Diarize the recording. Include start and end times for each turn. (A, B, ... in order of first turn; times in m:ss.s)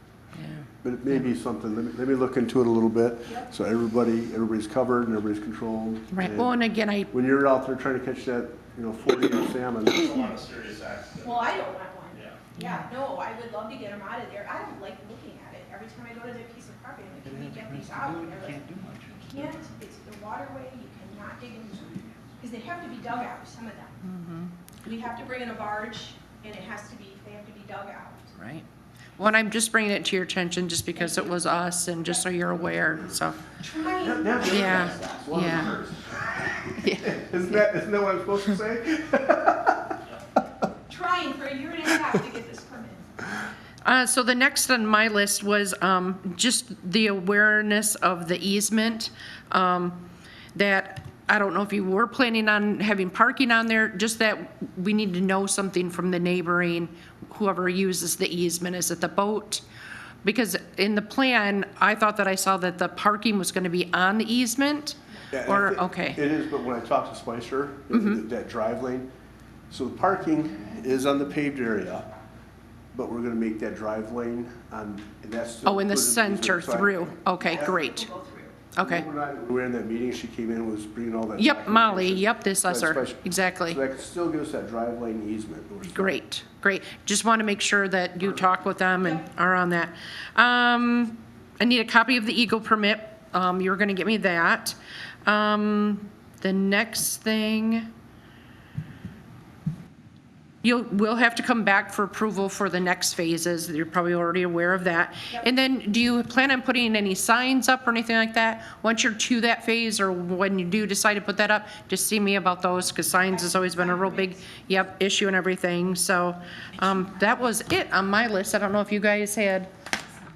0:00.4-0:00.6 A
0:00.8-0:06.5 B
0:06.1-0:07.1 A
0:07.1-0:10.1 B
0:09.8-0:12.4 C
0:11.2-0:24.0 D
0:24.0-0:24.5 A
0:24.8-0:28.3 D
0:28.4-0:28.6 A
0:29.2-0:33.5 A
0:30.9-0:32.3 D
0:33.6-0:34.9 D
0:34.0-0:40.0 B
0:34.4-0:35.8 A
0:36.7-0:37.6 A
0:40.9-0:43.0 D
0:43.8-0:59.6 A
1:00.2-1:06.2 A
1:05.3-1:09.1 B
1:07.9-1:08.2 A
1:09.7-1:12.1 B
1:12.9-1:17.5 B
1:15.6-1:18.1 A
1:17.4-1:18.6 D
1:18.7-1:19.0 A
1:18.8-1:26.2 B
1:21.4-1:23.8 A
1:25.8-1:37.9 A
1:29.0-1:29.2 D
1:40.6-1:59.7 A
1:53.2-1:54.9 D